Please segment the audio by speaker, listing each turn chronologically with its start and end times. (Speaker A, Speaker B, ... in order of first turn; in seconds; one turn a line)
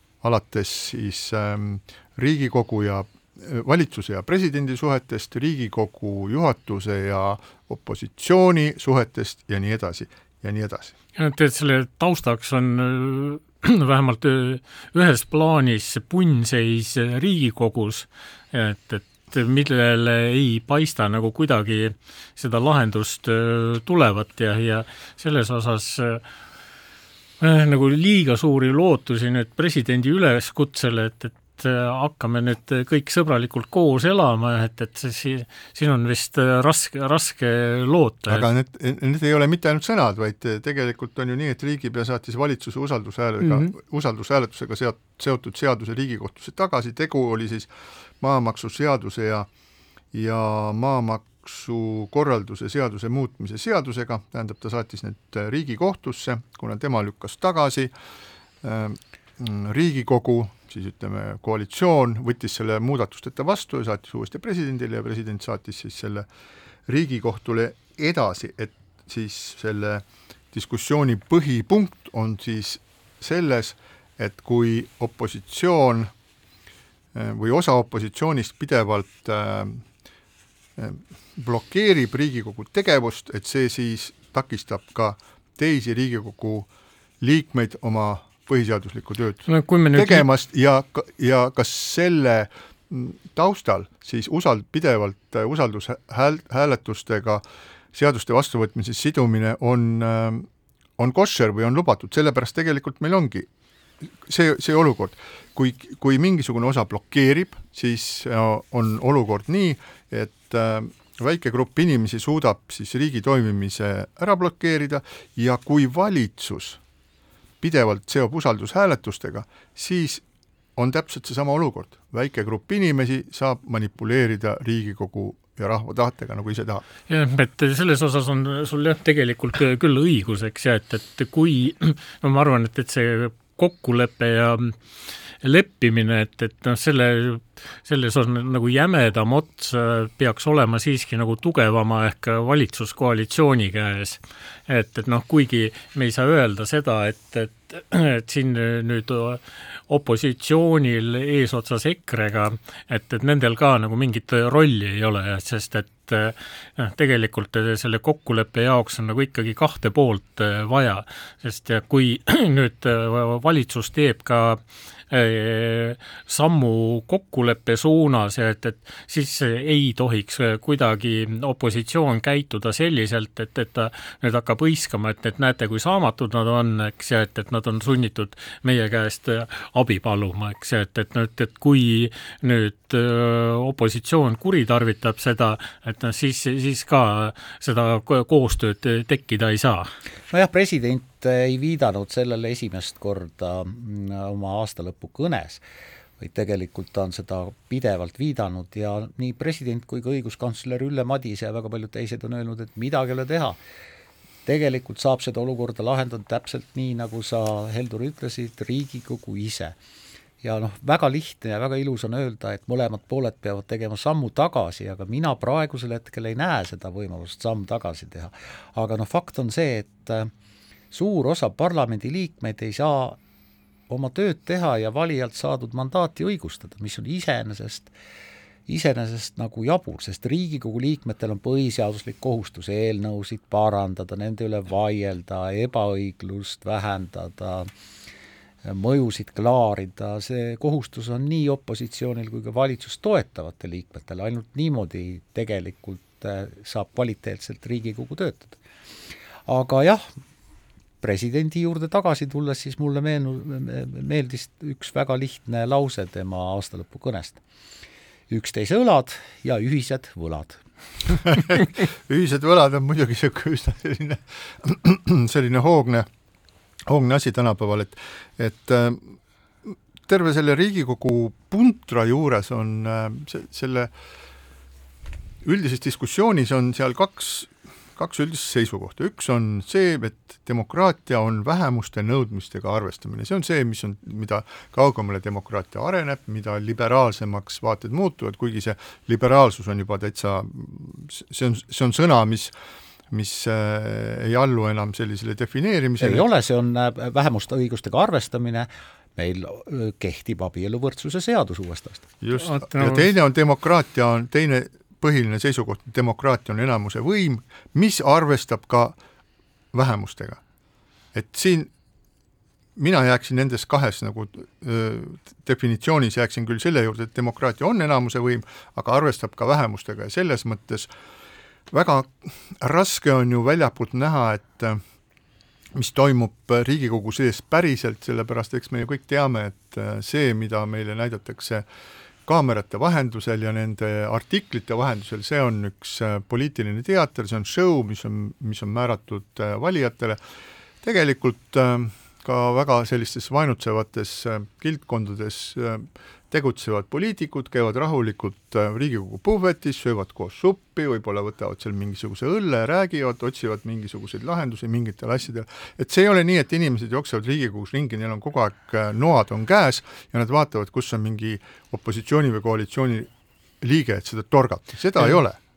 Speaker A: 0.2-10.9
Speaker B: 11.2-26.2
Speaker B: 27.4-38.5
Speaker A: 38.3-47.7
Speaker B: 43.4-43.7
Speaker A: 48.2-49.5
Speaker A: 50.1-57.9
Speaker A: 58.6-66.3
Speaker A: 66.9-76.1
Speaker A: 77.2-79.8
Speaker A: 80.8-86.7
Speaker A: 87.2-97.4
Speaker B: 89.5-90.3
Speaker A: 97.9-100.5
Speaker A: 101.0-103.5
Speaker A: 104.3-116.8
Speaker A: 117.6-120.2
Speaker A: 120.8-126.9
Speaker B: 127.1-134.8
Speaker B: 135.4-189.9
Speaker C: 190.3-195.6
Speaker C: 196.2-203.6
Speaker C: 204.5-209.8
Speaker C: 210.4-220.3
Speaker C: 220.9-223.2
Speaker C: 223.9-227.9
Speaker C: 228.7-237.7
Speaker C: 238.7-248.6
Speaker C: 249.5-250.0
Speaker C: 251.0-257.4
Speaker C: 258.3-260.6
Speaker A: 261.2-266.1
Speaker A: 266.9-269.1
Speaker A: 269.7-273.9
Speaker A: 275.4-292.5
Speaker A: 293.1-296.3
Speaker C: 296.0-302.1
Speaker A: 302.2-309.0
Speaker B: 302.4-303.1
Speaker A: 309.7-310.4
Speaker A: 311.1-311.7
Speaker A: 312.8-320.9
Speaker A: 321.7-324.8
Speaker A: 325.8-331.6
Speaker A: 332.3-340.2
Speaker A: 340.8-363.1
Speaker A: 363.6-365.4